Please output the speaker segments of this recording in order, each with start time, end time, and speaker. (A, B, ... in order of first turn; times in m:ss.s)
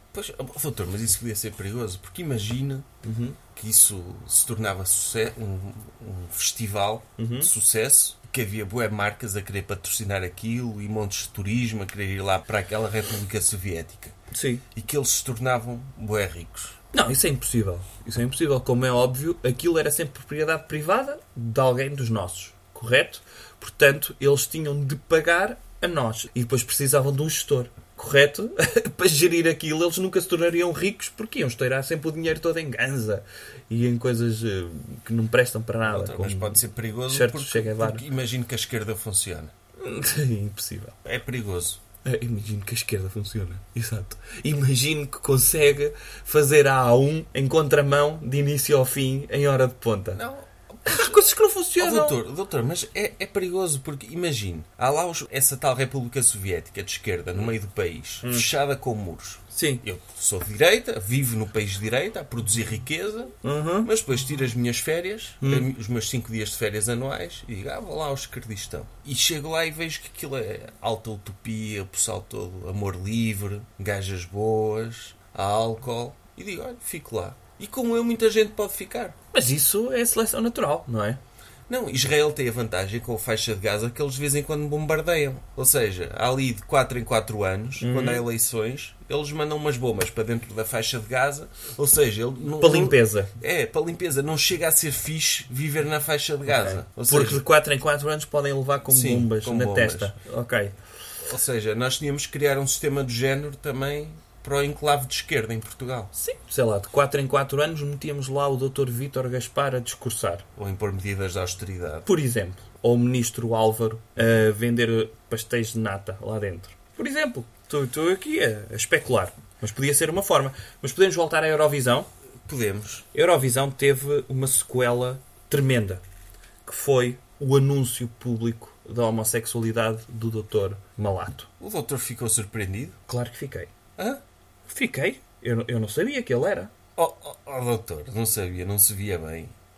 0:00.1-0:02.9 A
0:03.0-0:03.4 B
0:03.5-0:14.1 A
0:07.2-0:07.5 B
0:14.3-0:14.6 B
0:14.7-0:16.8 A
0:16.9-0:38.0 B
0:35.8-0:39.5 A
0:39.8-0:41.0 B
0:41.0-0:41.8 A
0:42.0-0:50.2 B
0:50.1-1:19.2 A
0:50.8-0:52.2 B
0:59.5-0:59.8 B
1:03.4-1:03.9 B
1:05.4-1:05.7 B
1:19.3-1:21.2 B
1:21.7-1:37.4 A
1:27.8-1:28.2 B
1:32.6-1:33.3 B
1:36.5-1:40.7 B
1:38.9-1:40.1 A
1:41.2-1:46.1 A
1:46.2-1:50.4 B
1:50.6-1:52.1 A
1:52.0-2:02.1 B
2:02.4-2:03.0 A
2:03.1-2:06.0 B
2:06.6-2:11.5 B
2:11.6-2:13.0 A
2:13.1-2:13.7 B
2:14.0-2:14.2 A
2:14.7-2:16.7 B
2:17.0-2:19.5 A